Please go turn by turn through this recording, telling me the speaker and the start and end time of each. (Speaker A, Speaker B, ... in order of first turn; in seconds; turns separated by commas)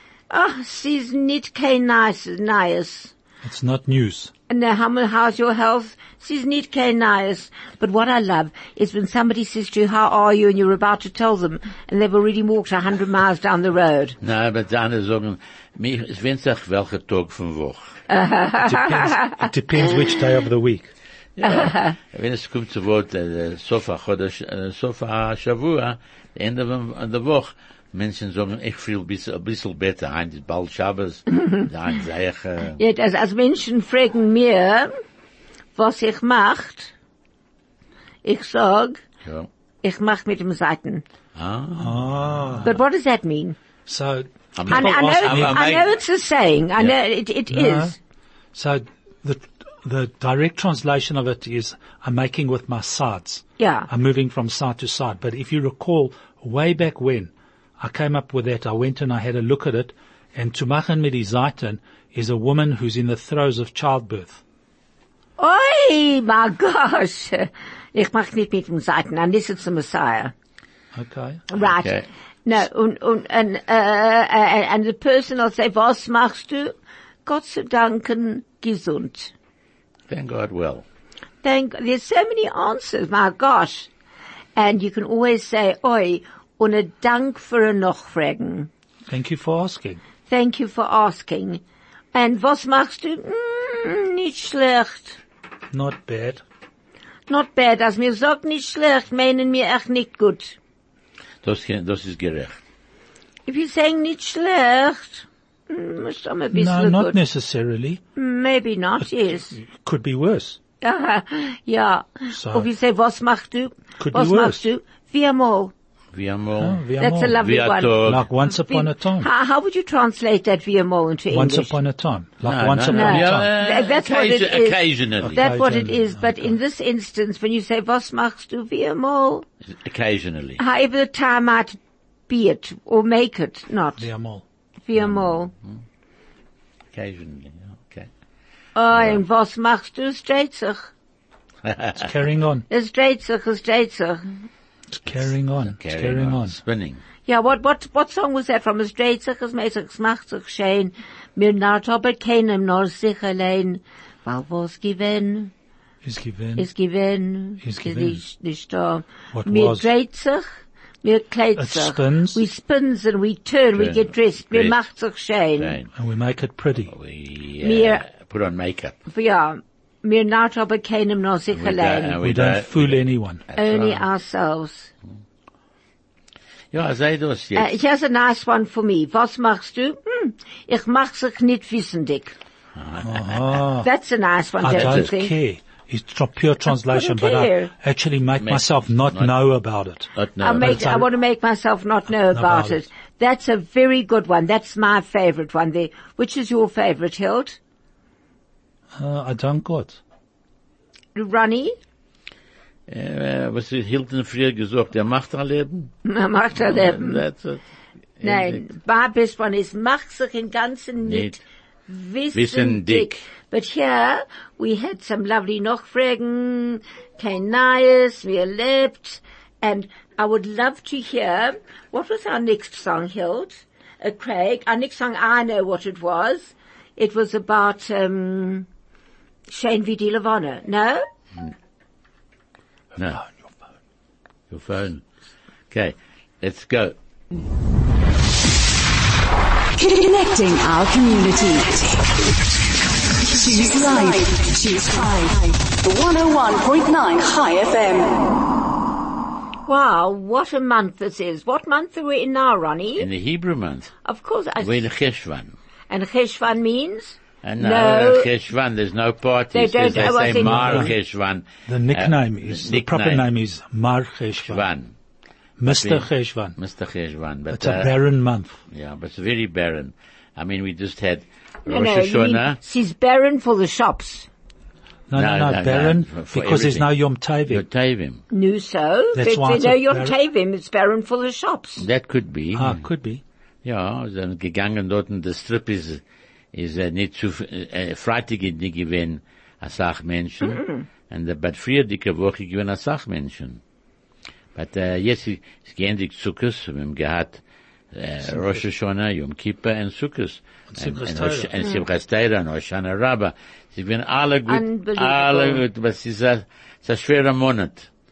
Speaker A: 0.3-3.1, Speaker B: 3.4-4.3, Speaker A: 4.5-14.2, Speaker C: 14.2-17.9, Speaker A: 18.1-19.5, Speaker B: 18.6-20.9, Speaker C: 21.4-32.8, Speaker A: 21.4-21.9, Speaker A: 31.3-31.6, Speaker A: 32.8-34.9, Speaker A: 35.8-36.9, Speaker A: 38.2-39.0, Speaker A: 39.8-41.0, Speaker C: 41.3-42.6, Speaker B: 41.8-42.8, Speaker A: 42.6-43.5, Speaker B: 43.9-45.7, Speaker C: 44.5-45.9, Speaker A: 44.7-48.0, Speaker B: 47.5-48.0, Speaker B: 48.5-64.4, Speaker A: 53.6-53.9, Speaker A: 65.4-70.3, Speaker B: 70.9-71.5, Speaker A: 71.5-76.7, Speaker C: 71.6-72.0, Speaker A: 77.2-79.3, Speaker C: 80.1-80.8, Speaker A: 81.4-83.9, Speaker A: 84.5-88.7, Speaker B: 89.1-90.0, Speaker A: 90.3-91.6, Speaker A: 92.1-95.2, Speaker B: 95.7-96.4, Speaker A: 97.3-100.5, Speaker C: 101.4-102.6, Speaker A: 103.5-107.2, Speaker B: 106.5-108.0, Speaker A: 108.2-109.5, Speaker B: 109.0-110.6, Speaker A: 110.8-115.7, Speaker B: 112.3-112.7, Speaker B: 114.0-114.6, Speaker C: 116.1-116.8, Speaker B: 116.6-117.4, Speaker A: 117.0-118.0, Speaker C: 117.4-118.2, Speaker B: 118.0-119.3, Speaker A: 118.5-121.7, Speaker B: 121.3-123.5, Speaker C: 122.4-125.4, Speaker A: 122.9-124.8, Speaker B: 125.2-126.5, Speaker A: 125.3-129.4, Speaker C: 129.8-130.6, Speaker A: 130.6-134.1, Speaker B: 134.0-134.4, Speaker A: 134.8-135.5, Speaker C: 136.9-138.1, Speaker A: 138.7-140.9, Speaker C: 138.9-139.2, Speaker C: 141.6-142.0, Speaker B: 141.9-142.7, Speaker A: 142.7-144.2, Speaker B: 144.9-146.6, Speaker C: 145.1-147.0, Speaker A: 147.2-155.5, Speaker B: 156.0-156.7, Speaker A: 156.6-160.4, Speaker B: 157.6-158.2, Speaker B: 159.3-159.9, Speaker A: 161.0-165.8, Speaker B: 161.6-162.4, Speaker C: 163.8-164.8, Speaker C: 165.6-165.9, Speaker B: 165.9-166.9, Speaker C: 166.9-169.0, Speaker A: 167.6-168.0, Speaker A: 169.1-172.2, Speaker C: 171.5-174.0, Speaker B: 172.2-173.4, Speaker A: 173.6-174.9, Speaker C: 176.7-177.7, Speaker A: 177.6-182.3, Speaker C: 182.8-183.6, Speaker B: 183.0-183.9, Speaker A: 183.8-185.3, Speaker B: 184.6-191.1, Speaker C: 184.7-185.1, Speaker A: 186.7-187.7, Speaker C: 188.4-189.3, Speaker C: 190.1-190.9, Speaker A: 190.4-197.6, Speaker B: 192.3-192.8, Speaker B: 199.0-200.0, Speaker A: 201.1-201.7, Speaker C: 202.9-205.9, Speaker A: 206.0-207.2, Speaker C: 206.6-207.6, Speaker C: 208.2-208.6, Speaker A: 208.2-228.7, Speaker C: 211.0-211.3, Speaker C: 212.3-213.2, Speaker A: 229.5-231.0, Speaker C: 232.9-233.2, Speaker C: 234.5-235.0, Speaker C: 235.7-236.9, Speaker D: 239.8-242.0, Speaker D: 243.3-248.4, Speaker A: 249.7-253.1, Speaker C: 253.0-253.9, Speaker A: 254.0-254.9, Speaker C: 254.6-255.5, Speaker A: 255.9-258.3, Speaker C: 257.4-263.2, Speaker A: 259.5-260.9, Speaker B: 260.0-260.9, Speaker B: 261.7-264.6, Speaker C: 264.4-264.9, Speaker B: 265.6-266.5, Speaker C: 265.6-268.0, Speaker B: 267.5-268.6, Speaker C: 268.7-272.6, Speaker A: 271.7-274.3, Speaker B: 275.1-277.6, Speaker C: 275.1-276.9, Speaker C: 277.5-278.2, Speaker A: 278.3-281.8, Speaker B: 279.1-280.1, Speaker C: 281.8-282.8, Speaker B: 282.5-283.2, Speaker C: 283.6-286.0, Speaker C: 286.5-293.6, Speaker A: 290.4-290.8, Speaker C: 294.5-297.4, Speaker C: 297.9-307.9, Speaker B: 298.3-298.6, Speaker B: 300.7-301.5, Speaker A: 304.5-305.6